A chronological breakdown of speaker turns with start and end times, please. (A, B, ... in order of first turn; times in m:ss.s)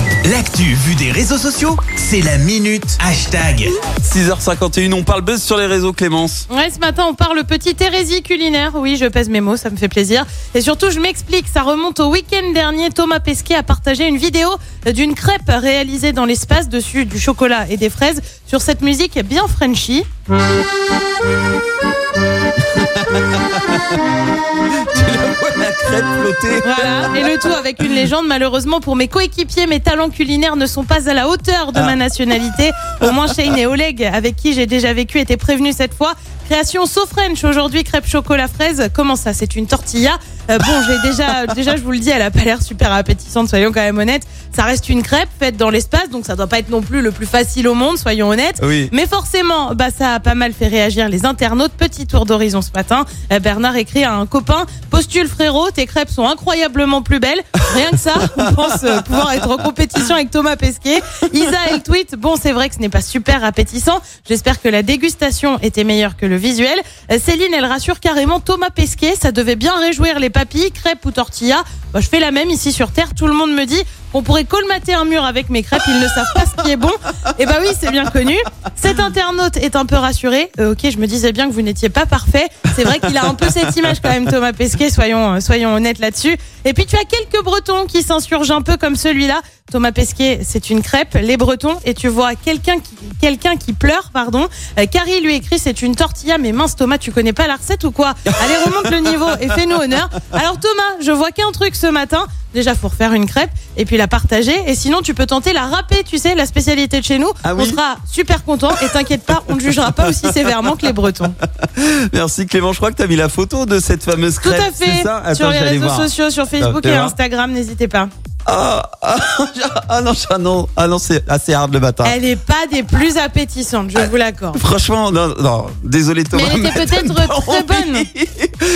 0:00.2-0:03.8 A
0:04.0-0:06.5 B
0:06.5-0:20.1 C
0:22.7-0:24.0 B
0:24.7-0:27.3 B
0:26.6-1:51.4 C
0:48.6-0:48.9 B
1:22.8-1:24.1 B
1:38.3-1:39.6 B
1:47.4-1:47.8 B
1:49.5-1:50.9 B
1:51.6-1:57.2 B
1:54.4-1:58.1 C
1:58.5-2:02.2 B
2:02.0-2:04.6 C
2:04.6-2:08.5 B
2:06.3-2:08.1 C